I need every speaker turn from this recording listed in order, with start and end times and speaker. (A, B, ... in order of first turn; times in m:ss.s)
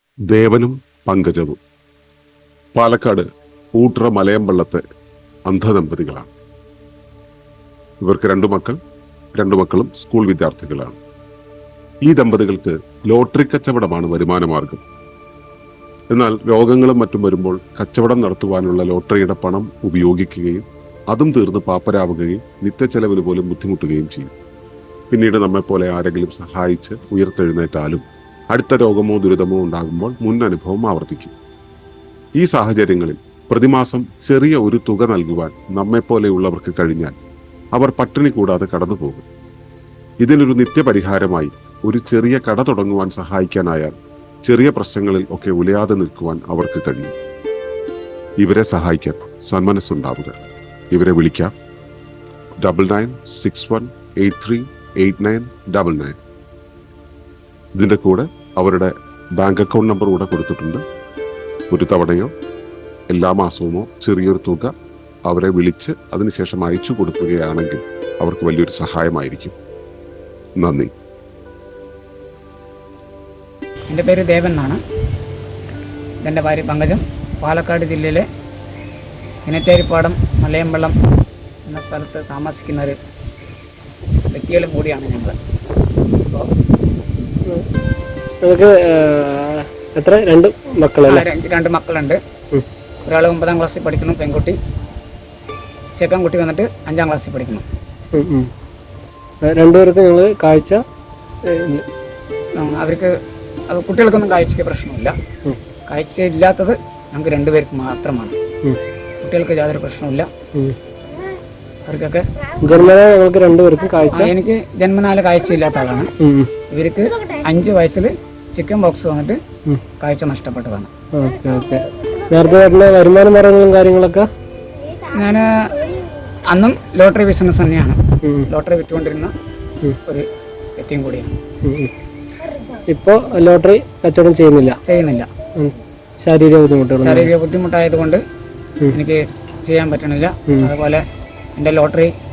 0:00.3-0:01.6 A
0:02.8-0:04.8 A
0:05.5-0:06.3 A
0:08.0-0:08.8 A
0:09.4-0:11.0 A
0:12.1-0:14.8 A
0:16.1-0:24.3 A
0:25.1-0:31.3 A
0:32.4-0:37.2 A
0:37.7-0:39.3 A
0:40.2-0:47.1 A
0:48.4-0:51.5 A
0:52.6-0:56.2 A
0:57.8-1:00.8 A
1:01.7-1:02.3 A
1:03.1-1:04.7 A
1:05.2-1:09.6 A
1:10.6-1:10.9 A
1:13.9-1:14.8 B
1:16.2-1:18.2 B
1:19.5-1:21.0 B
1:21.7-1:23.0 B
1:24.3-1:25.4 B
1:28.4-1:31.3 C
1:31.1-1:32.2 B
1:33.1-1:34.6 B
1:36.0-1:37.7 B
1:38.1-1:38.5 C
1:39.4-1:40.8 C
1:41.5-1:41.8 C
1:42.6-1:43.1 B
1:43.7-1:45.2 B
1:45.9-1:48.4 B
1:49.2-1:50.3 B
1:51.9-1:52.9 B
1:52.6-1:54.3 C
1:54.1-1:56.1 B
1:56.2-1:56.5 C
1:56.7-1:59.4 B
2:00.0-2:00.9 B
2:01.1-2:04.3 C
2:05.1-2:05.8 B
2:06.5-2:09.3 B
2:10.8-2:11.3 B
2:11.6-2:11.9 C
2:12.9-2:14.8 C
2:14.8-2:15.3 B
2:15.6-2:17.3 C
2:17.0-2:18.2 B
2:18.9-2:21.0 B
2:21.6-2:22.1 B